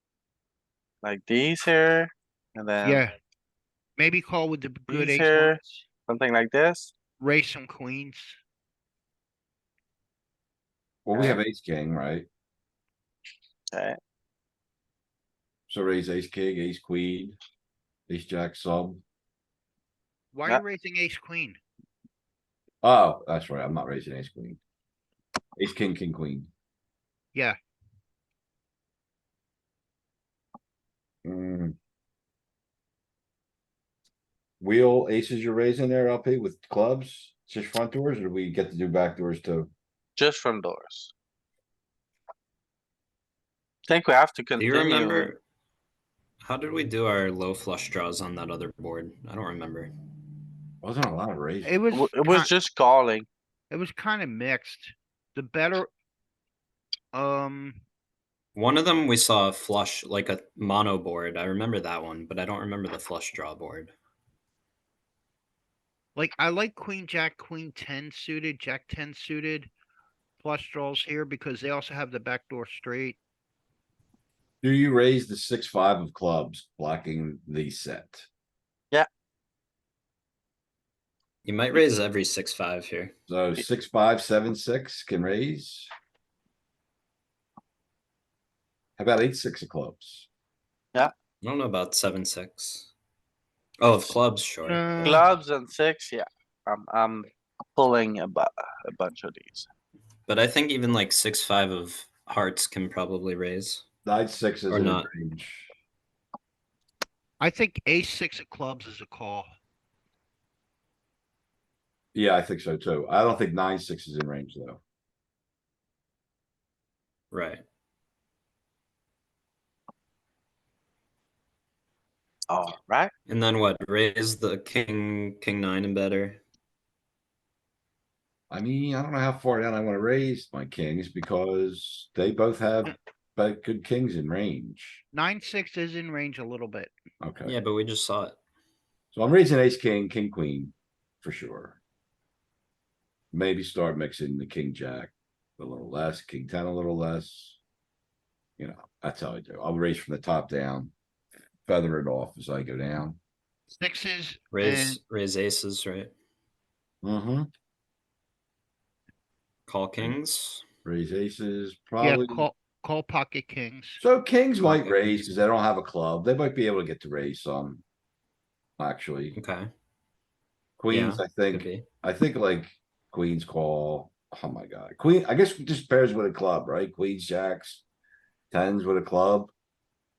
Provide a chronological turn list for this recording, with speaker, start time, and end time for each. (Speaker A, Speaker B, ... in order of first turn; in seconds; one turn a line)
Speaker A: 1.0-3.0
Speaker B: 2.8-3.1
Speaker B: 4.0-5.8
Speaker A: 4.9-6.9
Speaker B: 7.2-8.3
Speaker C: 11.1-12.3
Speaker A: 11.1-11.4
Speaker A: 13.7-14.0
Speaker C: 15.7-17.4
Speaker C: 18.1-19.0
Speaker B: 20.3-21.6
Speaker C: 22.8-24.6
Speaker C: 25.6-26.5
Speaker C: 31.2-31.8
Speaker C: 34.6-39.7
Speaker A: 40.2-41.1
Speaker A: 43.9-45.3
Speaker D: 44.6-45.4
Speaker D: 46.4-49.9
Speaker C: 50.8-51.7
Speaker B: 51.6-52.5
Speaker A: 51.9-53.3
Speaker B: 53.7-55.9
Speaker B: 57.1-57.8
Speaker D: 58.5-63.9
Speaker B: 66.1-69.7
Speaker B: 70.4-73.2
Speaker C: 74.6-78.3
Speaker D: 81.4-83.1
Speaker C: 83.3-85.9
Speaker C: 89.0-90.3
Speaker D: 91.4-92.9
Speaker D: 93.8-95.3
Speaker B: 94.6-95.3
Speaker A: 95.0-99.7
Speaker D: 100.3-103.8
Speaker C: 104.0-105.7
Speaker D: 104.7-105.1
Speaker B: 107.4-109.5
Speaker C: 112.1-114.8
Speaker D: 117.3-117.6
Speaker A: 122.5-123.1
Speaker D: 123.3-126.4
Speaker C: 128.5-135.0
Speaker B: 135.1-136.9
Speaker C: 137.2-137.5
Speaker D: 137.4-138.4
Speaker C: 139.1-141.8
Speaker C: 143.3-147.6
Speaker C: 148.6-150.9
Speaker C: 151.7-153.2
Speaker B: 153.7-155.0
Speaker D: 154.5-156.1
Speaker C: 157.0-157.5
Speaker D: 159.7-160.6
Speaker C: 160.8-162.5
Speaker B: 162.0-164.0
Speaker C: 164.0-167.8
Speaker D: 164.6-165.2
Speaker C: 168.8-169.4
Speaker D: 169.3-169.7
Speaker C: 170.8-177.8
Speaker D: 170.9-171.8
Speaker C: 178.5-179.5